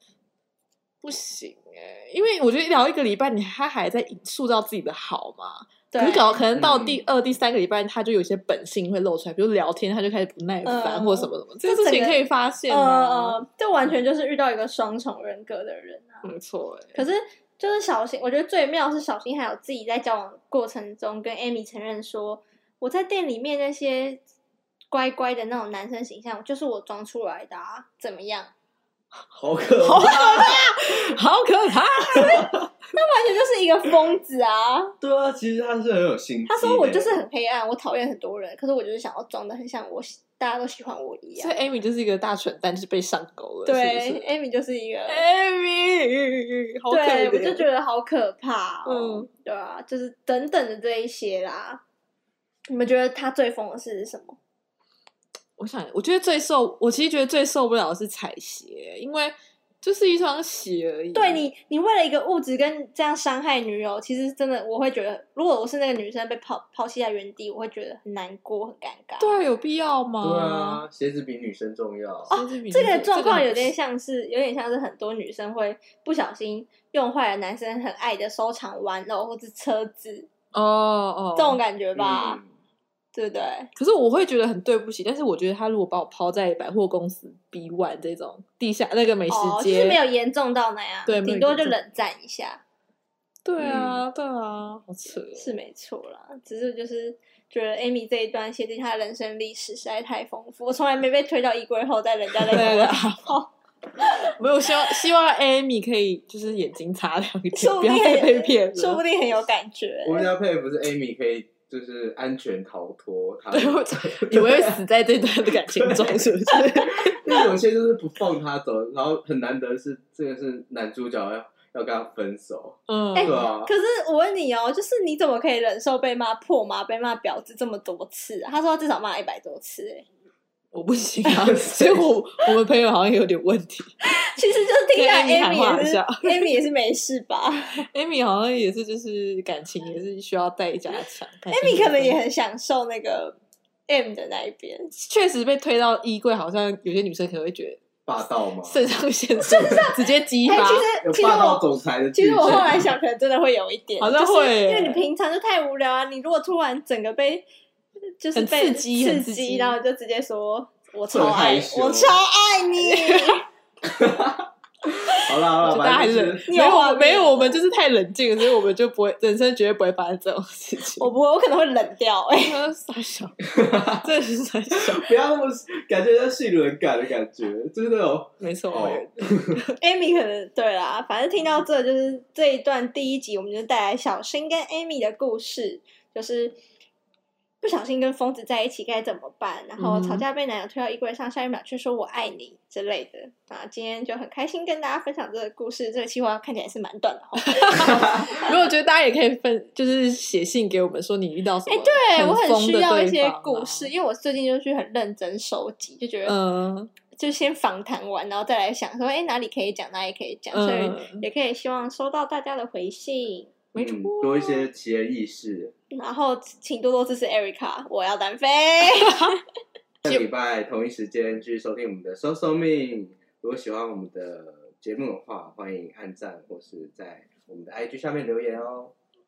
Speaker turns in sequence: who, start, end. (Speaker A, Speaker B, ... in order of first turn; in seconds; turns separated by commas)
Speaker A: 1.0-13.4, Speaker B: 5.9-6.4, Speaker C: 6.5-7.0, Speaker B: 10.6-16.3, Speaker A: 16.2-17.0, Speaker B: 16.9-24.2, Speaker B: 24.9-28.5, Speaker C: 29.3-31.1, Speaker A: 29.8-32.6, Speaker C: 32.1-32.5, Speaker B: 32.9-34.9, Speaker C: 35.0-37.2, Speaker B: 36.5-41.5, Speaker A: 41.4-44.2, Speaker B: 43.6-45.2, Speaker A: 45.1-47.6, Speaker B: 46.9-51.8, Speaker A: 48.9-49.3, Speaker B: 52.7-54.4, Speaker A: 55.6-61.4, Speaker B: 61.1-69.3, Speaker A: 69.2-70.8, Speaker C: 70.2-72.3, Speaker B: 72.3-80.3, Speaker A: 72.3-73.7, Speaker A: 80.5-81.6, Speaker B: 81.3-82.4, Speaker C: 82.0-82.5, Speaker B: 83.1-83.7, Speaker A: 83.8-90.0, Speaker B: 89.3-92.6, Speaker A: 91.0-91.8, Speaker A: 93.4-95.5, Speaker C: 93.6-94.0, Speaker B: 95.3-103.5, Speaker A: 102.5-103.4, Speaker A: 104.0-109.0, Speaker B: 107.5-110.3, Speaker C: 110.0-114.8, Speaker A: 113.5-117.4, Speaker C: 115.5-123.7, Speaker A: 122.9-123.5, Speaker B: 123.1-130.0, Speaker A: 130.7-133.9, Speaker C: 131.3-132.1, Speaker B: 134.1-137.9, Speaker A: 134.9-136.6, Speaker A: 137.9-142.2, Speaker B: 141.5-143.3, Speaker B: 143.9-144.9, Speaker A: 144.9-147.8, Speaker C: 148.1-148.8, Speaker A: 148.6-150.9, Speaker B: 149.4-157.4, Speaker C: 151.0-152.8, Speaker A: 152.4-152.7, Speaker A: 154.0-155.0, Speaker B: 158.2-163.4, Speaker A: 158.3-159.8, Speaker C: 161.1-162.2, Speaker A: 162.8-163.4, Speaker C: 163.8-166.4, Speaker A: 165.1-171.1, Speaker B: 166.5-167.6, Speaker B: 170.9-172.6, Speaker A: 172.4-175.1, Speaker C: 173.5-174.1, Speaker C: 174.7-179.5, Speaker A: 178.4-179.8, Speaker B: 179.8-186.6, Speaker B: 187.6-198.4, Speaker A: 189.8-190.2, Speaker A: 197.4-203.9, Speaker B: 201.7-206.3, Speaker A: 206.2-206.9, Speaker B: 207.1-213.5, Speaker A: 210.5-211.2, Speaker A: 213.7-214.7, Speaker C: 213.8-215.7, Speaker B: 215.9-219.4, Speaker A: 218.9-219.3, Speaker C: 220.0-228.9